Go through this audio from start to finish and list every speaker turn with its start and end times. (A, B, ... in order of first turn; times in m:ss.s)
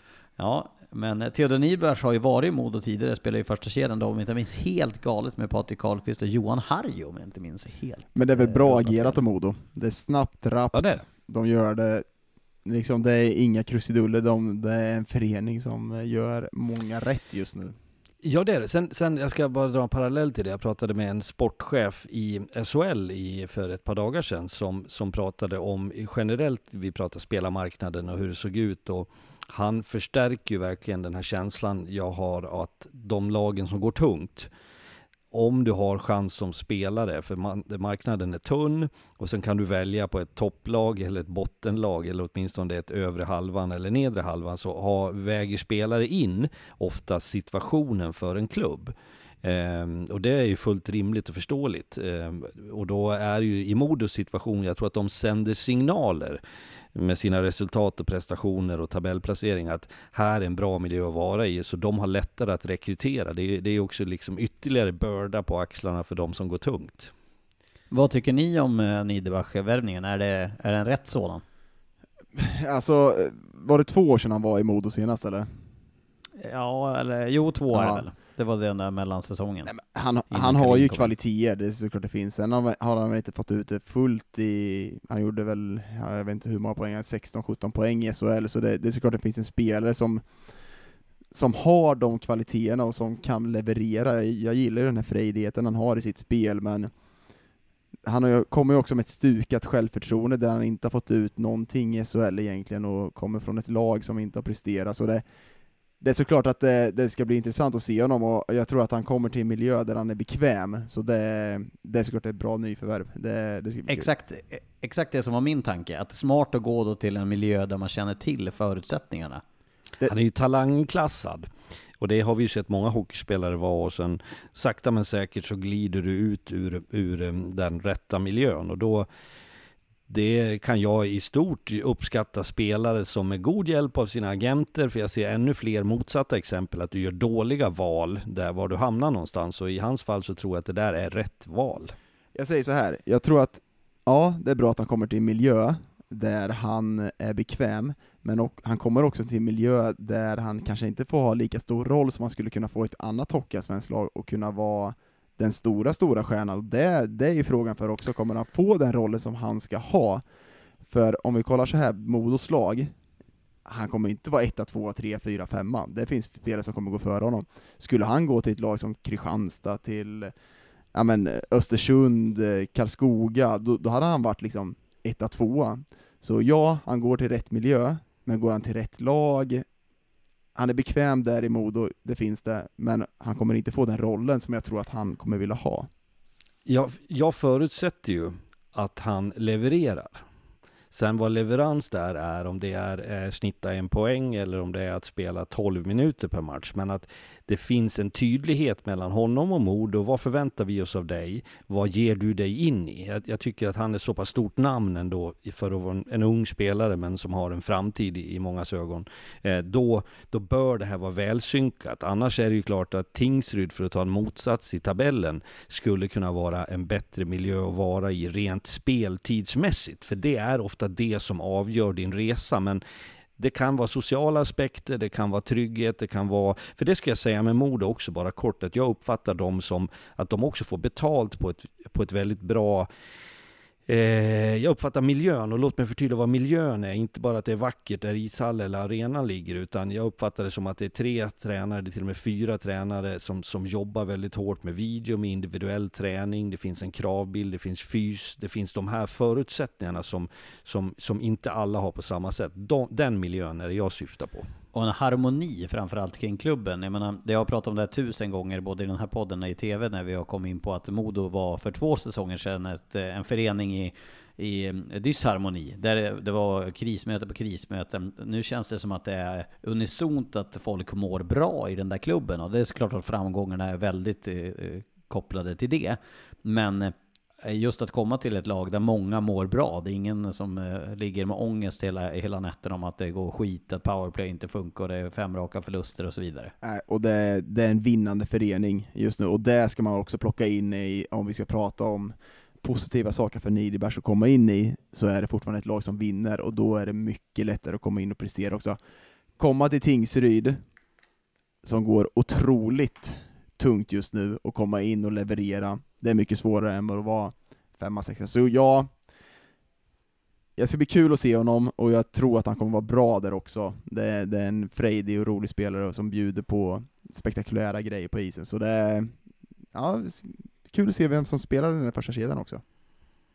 0:00.4-0:09.2 A
0:08.1-0:12.0 B
0:10.7-0:11.0 C
0:12.6-0:17.8 B
0:18.2-0:34.5 C
0:35.3-0:56.4 C
0:56.9-1:07.1 C
1:07.9-1:11.4 A
1:12.3-1:15.5 B
1:16.4-1:19.7 A
1:17.7-1:18.0 B
1:19.6-1:30.2 B
1:20.3-1:21.1 A
1:31.3-1:36.9 B
1:38.0-1:45.2 B
1:46.0-1:54.1 B
1:53.9-1:59.4 A
2:00.0-2:01.5 C
2:02.0-2:09.1 C
2:10.1-2:21.9 C
2:22.3-2:40.2 B
2:40.9-2:42.9 B
2:43.6-2:50.3 B
2:50.9-2:59.6 B
3:00.5-3:05.9 B
3:06.6-3:10.2 C
3:10.9-3:42.8 C
3:43.4-3:52.9 C
3:53.9-4:14.5 C
4:14.7-4:36.9 A
4:37.4-4:46.5 A
4:46.6-4:58.8 B
4:59.4-5:00.6 B
5:01.6-5:08.9 B
5:10.6-5:19.1 B
5:19.7-5:22.6 B